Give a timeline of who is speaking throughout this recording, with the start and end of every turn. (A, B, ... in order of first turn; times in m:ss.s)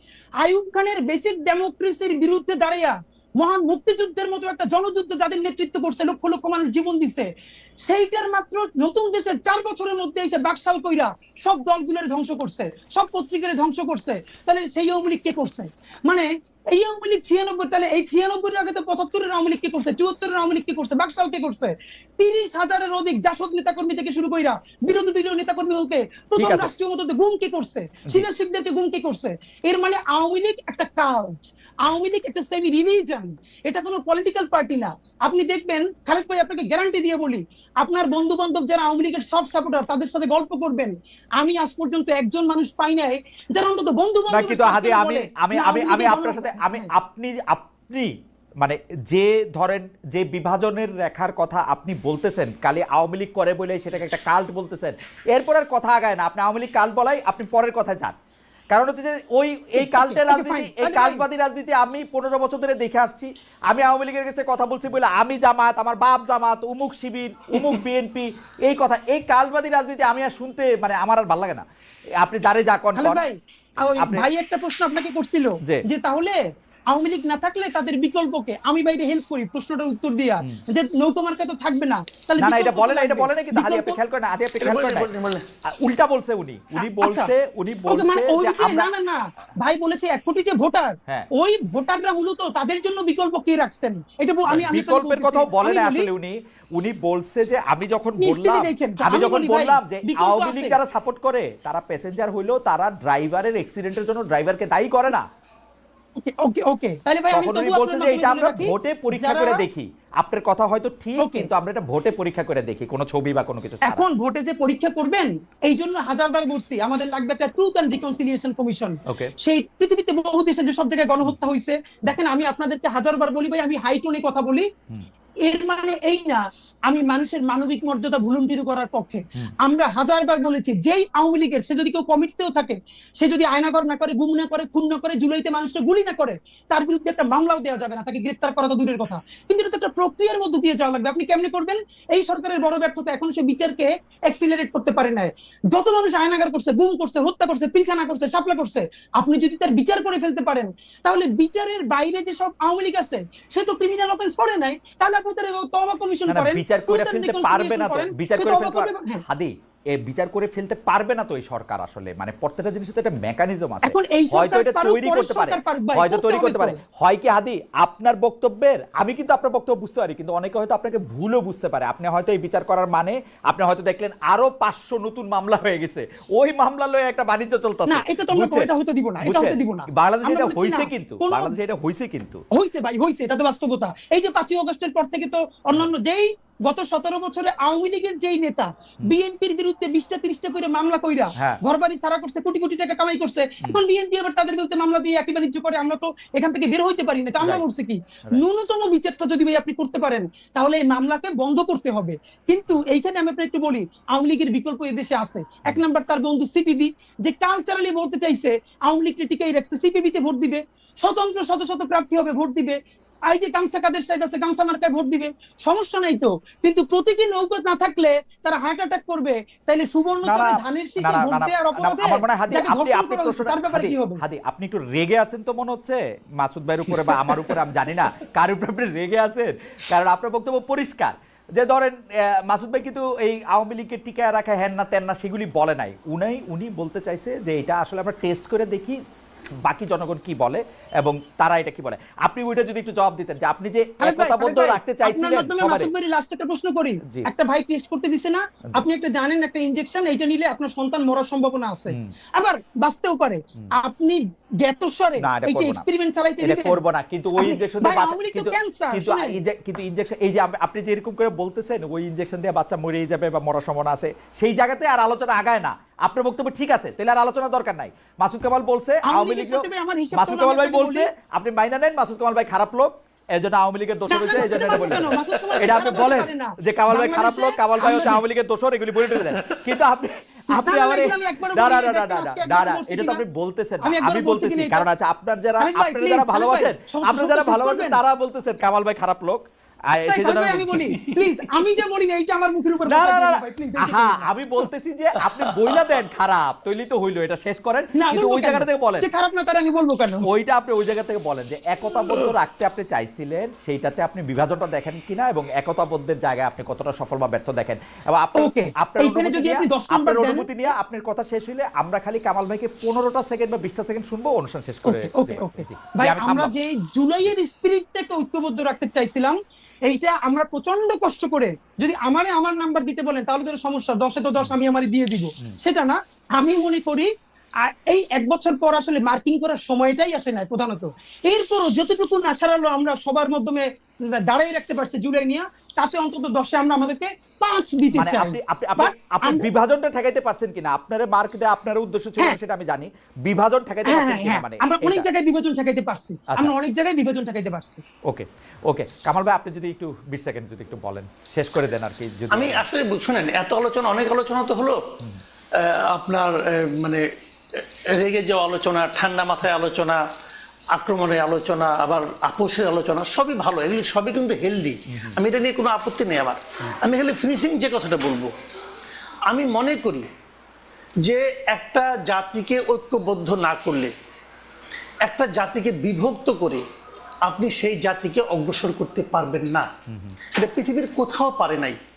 0:00.4-0:07.3 A
0:07.8-0:46.9 A
0:26.4-0:26.7 B
0:44.3-0:58.2 B
0:58.7-1:11.6 B
0:59.8-1:01.2 A
1:12.2-1:13.2 B
1:13.0-1:16.4 A
1:13.8-1:14.3 B
1:16.9-1:24.0 A
1:22.4-1:25.1 B
1:24.6-1:25.4 C
1:25.7-1:28.9 B
1:26.8-1:27.3 A
1:27.9-1:36.1 A
1:34.5-1:45.2 B
1:38.2-1:40.8 A
1:46.2-1:49.6 A
1:47.3-1:54.0 B
1:51.2-1:51.5 A
1:53.8-2:04.7 A
1:59.1-1:59.3 B
2:05.5-2:39.2 A
2:36.3-2:58.7 B
2:43.8-2:46.8 A
2:57.9-3:01.6 A
2:59.2-3:02.4 B
3:02.5-3:32.8 A
3:33.3-3:44.2 A
3:40.2-3:59.0 B
3:59.6-4:05.9 B
4:04.0-4:16.8 A
4:15.2-4:15.8 B
4:16.4-4:51.1 B
4:17.4-4:19.4 A
4:29.0-4:31.1 A
4:34.1-4:38.2 A
4:40.5-4:43.2 A
4:43.8-4:44.9 A
4:45.6-4:48.0 A
4:50.0-4:54.3 A
4:52.8-4:59.1 B
4:55.2-4:55.8 C
4:57.9-5:00.3 A
5:00.2-5:16.5 B
5:08.4-5:10.5 A
5:14.8-5:19.4 A
5:19.9-5:27.1 A
5:27.6-5:33.6 A
5:34.2-5:39.5 A
5:37.9-5:45.0 B
5:43.8-5:47.8 A
5:48.1-5:52.6 B
5:52.3-5:54.8 C
5:55.5-6:00.0 C
6:00.7-6:08.3 C
6:04.9-6:05.2 B
6:09.3-6:10.1 C
6:11.0-6:13.9 C
6:15.0-6:16.6 C
6:17.2-6:19.7 C
6:19.9-6:20.2 B
6:20.3-6:21.8 C